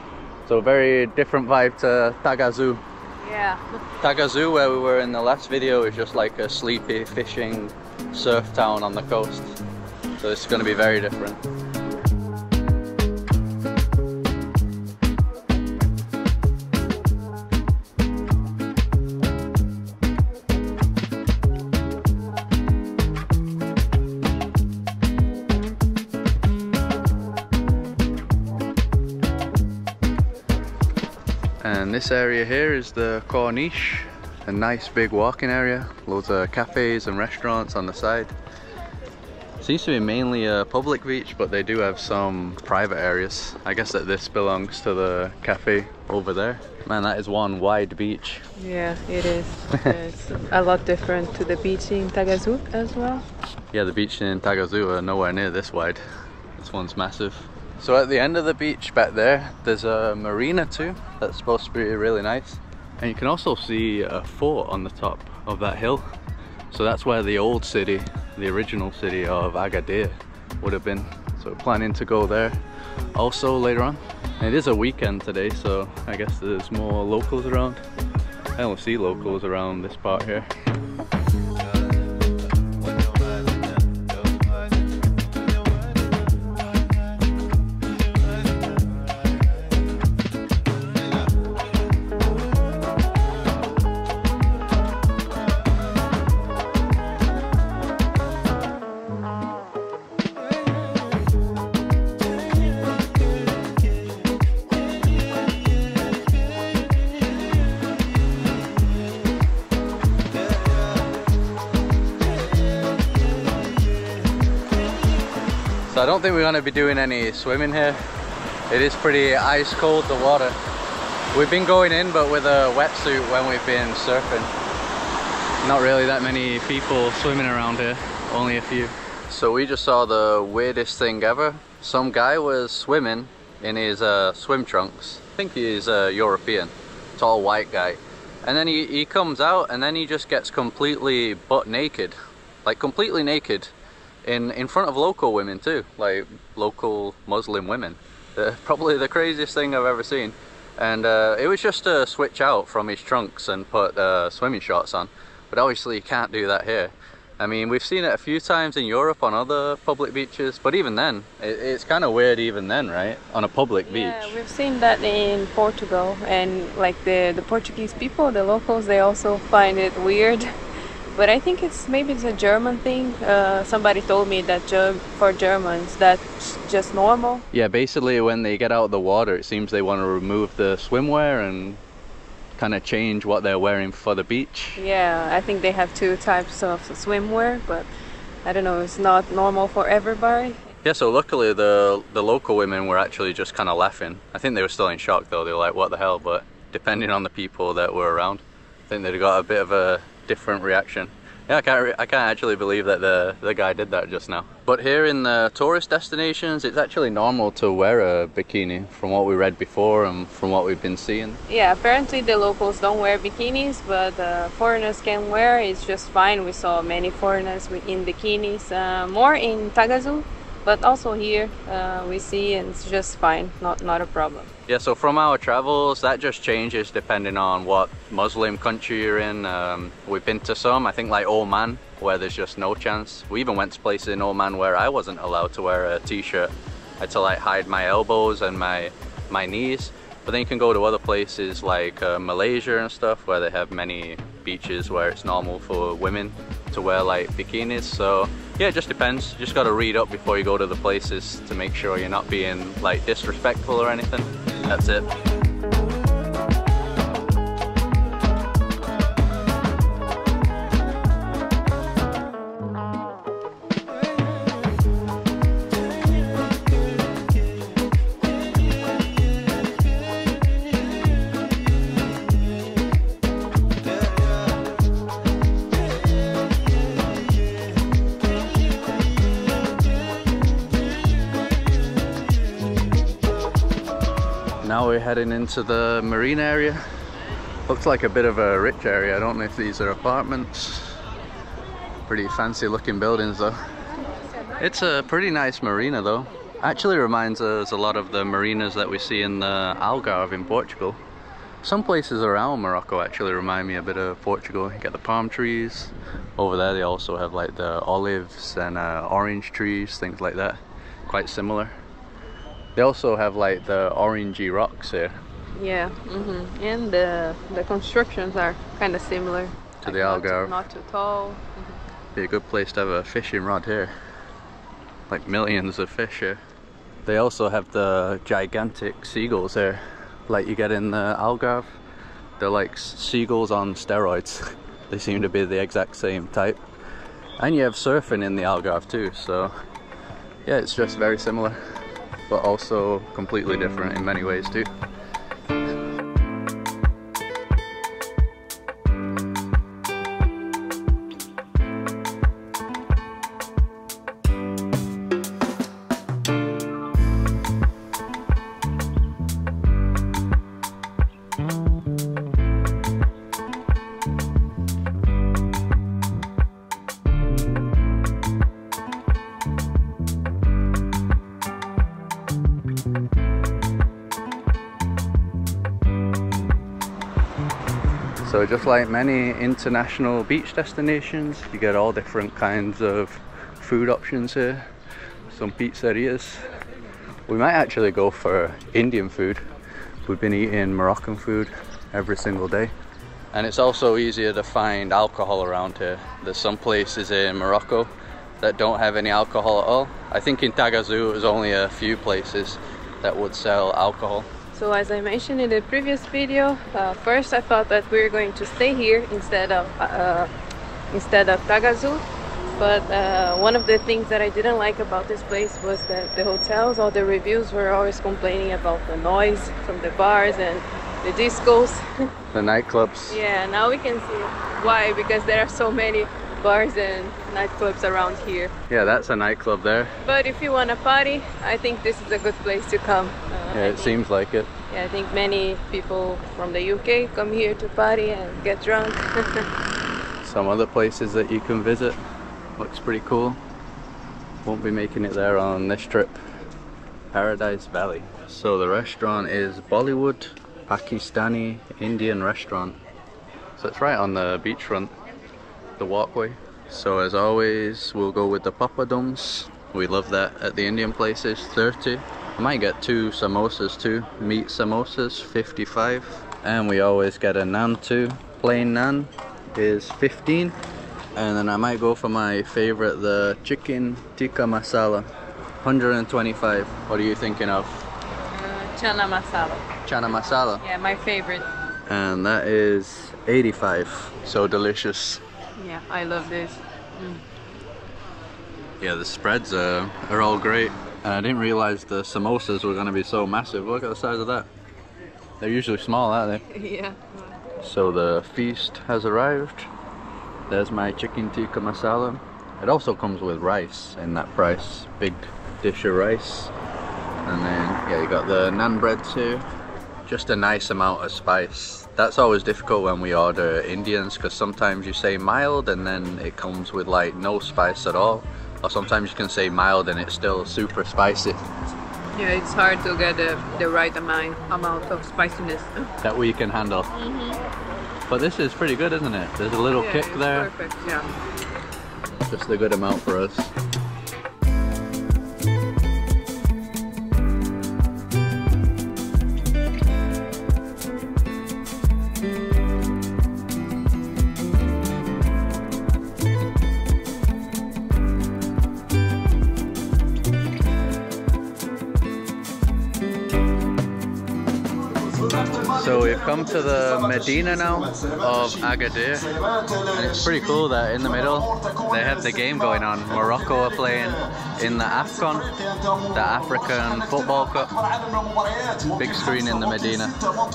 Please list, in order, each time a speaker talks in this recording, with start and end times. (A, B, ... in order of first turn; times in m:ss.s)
0:00.5-0:02.8 A
0:03.2-0:03.6 B
0:04.0-0:09.6 A
0:10.2-0:11.4 A
0:31.6-0:38.3 A
0:39.6-0:48.4 A
0:48.6-0:53.2 B
0:49.7-0:50.0 A
0:53.7-0:56.0 A
0:56.6-1:06.0 A
1:06.7-1:12.6 A
1:13.1-1:17.8 A
1:18.6-1:20.5 A
1:55.9-1:58.0 A
1:58.7-2:00.6 A
2:01.3-2:04.5 A
2:05.6-2:23.7 A
2:24.2-2:44.4 A
2:43.8-2:50.5 B
2:51.1-2:57.5 B
2:57.5-3:01.8 A
3:02.6-3:04.8 A
3:04.8-3:07.9 B
3:08.4-3:10.6 B
3:10.8-3:31.4 A
3:31.5-3:44.5 B
3:44.7-4:15.1 A
4:44.6-4:46.8 A
4:47.7-4:51.0 A
4:52.1-4:53.6 A
4:54.6-5:01.0 A
5:01.6-5:11.7 A
5:12.8-5:15.2 A
5:15.6-5:21.8 B
5:19.8-5:20.6 A
5:22.2-5:23.9 A
5:25.1-5:26.4 A
5:27.0-5:31.8 A
5:32.4-5:36.6 A
5:37.4-5:39.5 A
5:40.5-5:41.6 A
5:42.3-5:44.7 A
6:18.2-6:24.7 A
6:25.3-6:26.5 A
6:27.3-6:29.4 A
6:30.0-6:32.7 A
6:33.3-6:44.3 A
6:44.5-6:50.3 B
6:50.9-6:52.0 B
6:52.6-7:01.9 B
7:02.3-7:03.2 A
7:03.1-7:08.6 B
7:08.7-7:10.0 A
7:10.0-7:14.0 B
7:13.5-7:14.5 A
7:14.7-7:19.5 B
7:20.2-7:22.0 A
7:22.6-7:23.4 A
7:24.4-7:26.2 A
7:27.1-7:32.8 A
7:33.6-7:34.9 A
7:35.8-7:50.6 A
7:51.2-7:55.1 A
7:55.6-7:57.9 A
7:58.3-7:59.7 B
7:59.8-8:00.6 A
8:00.6-8:01.5 B
8:01.9-8:05.2 A
8:05.6-8:07.2 B
8:08.8-8:14.5 A
8:15.4-8:16.4 A
8:16.5-8:17.3 B
8:17.6-8:19.7 A
8:20.5-8:26.5 A
8:27.2-8:29.4 A
8:30.1-8:41.4 A
8:42.1-8:45.9 B
8:46.0-8:46.9 A
8:46.9-8:47.4 B
8:48.1-8:50.5 A
8:49.8-8:51.1 B
8:52.3-8:53.5 A
9:15.6-9:27.8 A
9:28.9-9:30.2 A